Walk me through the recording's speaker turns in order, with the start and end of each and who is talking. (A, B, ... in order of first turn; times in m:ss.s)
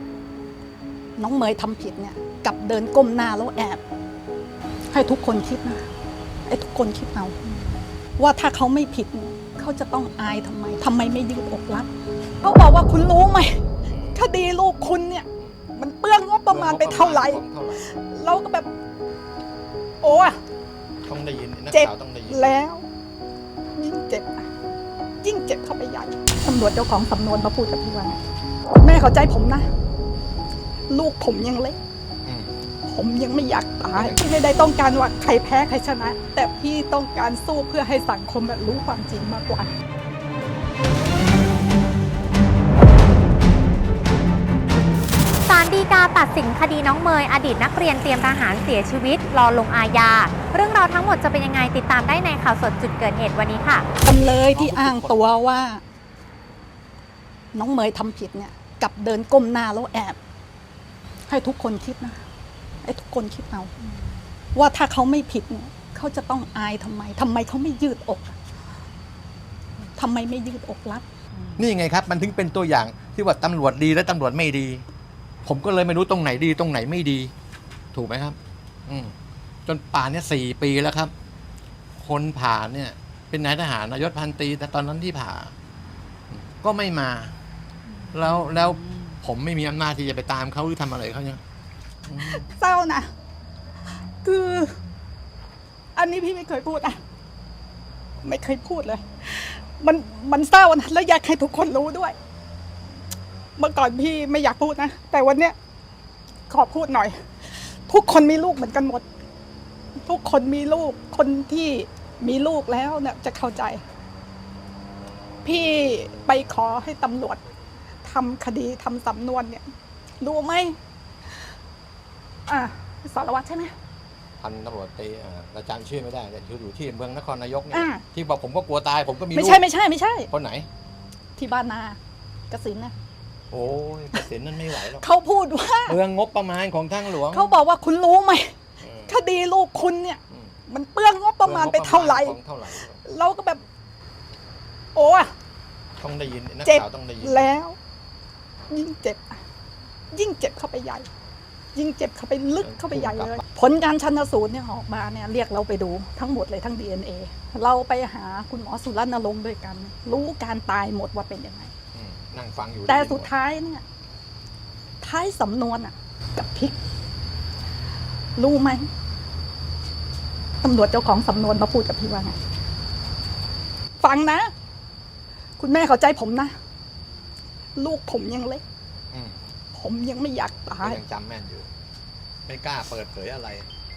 0:01.2-0:03.8 A
0:04.9-0:05.9 A
0:06.5-0:07.4 A
0:08.2-0:11.9 A
0:12.4-0:13.6 A
0:14.1-0:18.7 A
0:15.4-0:15.7 B
0:16.5-0:18.0 B
0:20.0-0:20.4 A
0:21.0-0:22.6 B
0:21.7-0:22.9 A
0:23.8-0:24.4 A
0:25.2-0:28.2 A
0:28.8-0:29.7 A
0:30.9-0:31.8 A
0:32.3-0:32.5 B
0:32.8-0:39.7 A
0:33.9-0:34.2 B
0:45.4-0:53.9 C
0:54.0-0:55.2 B
0:54.0-0:55.8 A
0:57.5-1:00.2 A
1:01.3-1:02.2 A
1:02.8-1:03.7 A
1:04.5-1:08.4 A
1:09.9-1:11.0 A
1:11.6-1:14.8 B
1:15.4-1:17.3 B
1:17.9-1:19.1 B
1:19.7-1:21.1 B
1:22.0-1:25.6 B
1:26.3-1:27.4 B
1:28.1-1:31.4 B
1:32.1-1:32.5 B
1:32.2-1:33.1 A
1:34.2-1:34.8 A
1:35.9-1:37.0 A
1:38.2-1:42.1 A
1:43.6-1:45.6 A
1:46.5-1:49.0 A
1:50.0-1:53.8 A
1:55.4-1:57.4 A
1:58.0-1:59.7 A
2:00.2-2:00.8 A
2:02.5-2:03.7 A
2:04.4-2:09.6 B
2:07.7-2:08.0 A
2:09.3-2:10.3 A
2:10.3-2:10.7 B
2:11.4-2:12.0 A
2:12.5-2:12.9 A
2:13.5-2:15.0 B
2:14.8-2:16.0 A
2:15.8-2:17.6 B
2:17.1-2:18.5 A
2:18.8-2:19.2 B
2:19.1-2:22.4 A
2:20.3-2:20.6 B
2:21.4-2:23.0 B
2:23.0-2:23.6 A
2:24.9-2:25.3 A
2:26.0-2:27.6 B
2:26.6-2:27.8 A
2:28.7-2:29.4 A
2:30.1-2:31.1 A
2:31.8-2:41.7 A
2:32.6-2:33.4 B
2:41.9-2:43.3 B
2:42.9-2:43.8 A
2:45.0-2:46.8 A
2:48.4-2:48.8 A
2:50.6-2:52.4 A
2:54.0-2:54.5 A
2:55.6-2:56.5 A
2:57.8-2:58.6 A
2:59.1-2:59.5 B
2:59.7-3:01.0 A
3:00.8-3:01.7 B
3:02.5-3:03.7 B